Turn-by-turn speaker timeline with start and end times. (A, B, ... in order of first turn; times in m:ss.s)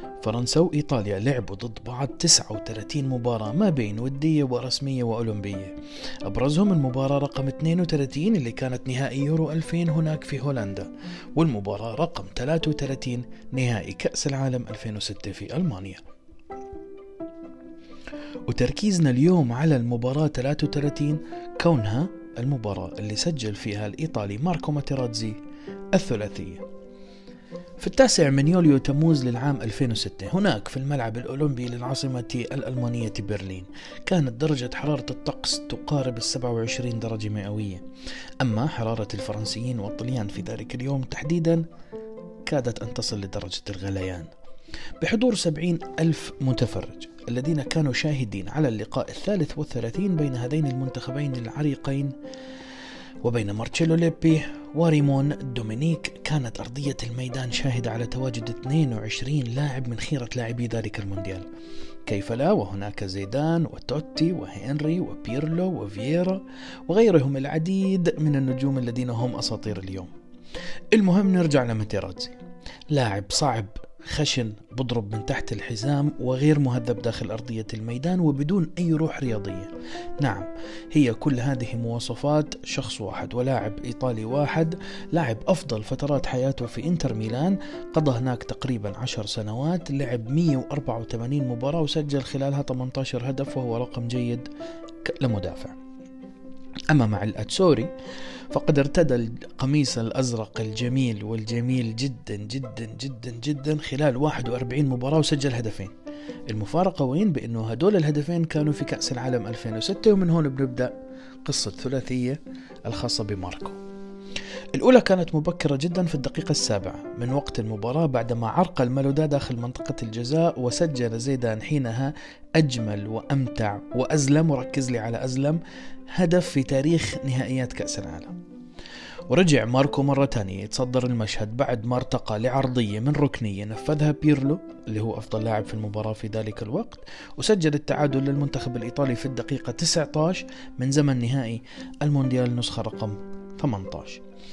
0:00.2-0:05.7 A
0:06.2-0:16.0 A
0:18.5-0:25.4 A
0:25.9-0:26.6 A
0:27.8-0:37.8 A
0:38.4-0:41.6 A
0:42.5-0:44.3 A
0:45.0-0:52.1 A
0:53.2-1:01.5 A
1:02.1-1:10.1 A
1:10.9-1:12.4 A
1:12.9-1:34.5 A
1:35.0-1:35.8 A
1:36.9-1:37.9 A
1:38.5-1:45.9 A
1:46.5-1:50.9 A
1:51.4-1:53.8 A
1:54.7-2:05.6 A
2:06.1-2:08.3 A
2:09.3-2:24.2 A